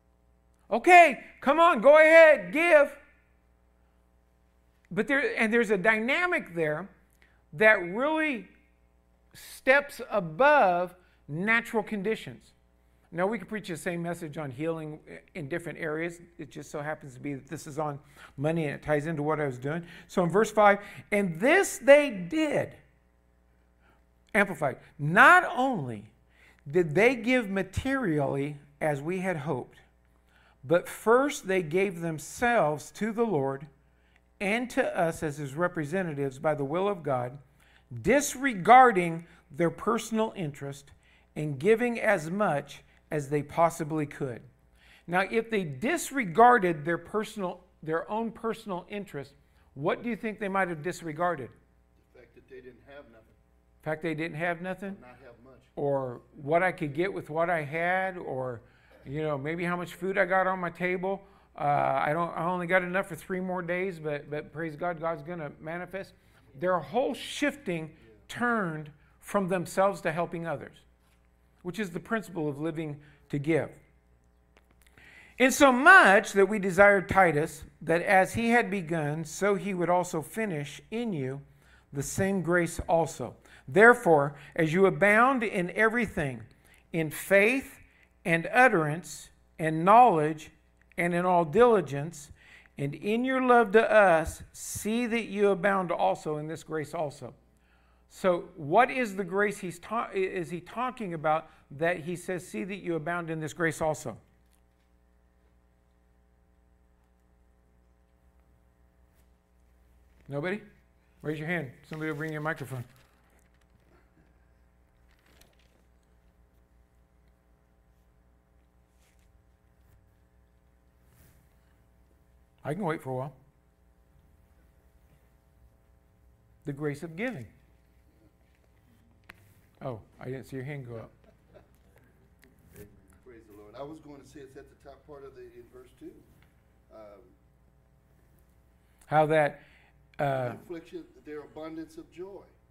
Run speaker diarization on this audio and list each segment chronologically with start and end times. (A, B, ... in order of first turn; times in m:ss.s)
0:00.7-0:03.0 A
0:04.9-0:06.9 A
0:07.5-0:08.5 A
0:09.3-0:12.5 A
0:13.1-0:22.8 A
0:24.3-0:26.1 A
0:26.7-0:29.8 A
0:30.6-0:33.7 A
0:34.4-0:37.4 A
0:37.9-0:44.5 A
0:45.1-0:51.5 A
0:52.0-0:53.4 B
0:53.8-0:55.0 A
0:54.8-0:55.7 B
0:55.8-1:10.8 A
1:11.6-1:13.8 A
1:15.4-1:37.4 A
1:38.1-1:44.2 A
1:50.3-1:50.6 A
1:51.2-1:52.9 A
2:02.6-2:03.4 A
2:06.6-2:07.5 A
2:09.8-2:11.1 A
2:12.7-2:16.3 B
2:16.9-2:17.4 B
2:19.1-2:19.6 A
2:20.2-2:20.6 A
2:20.3-2:22.5 B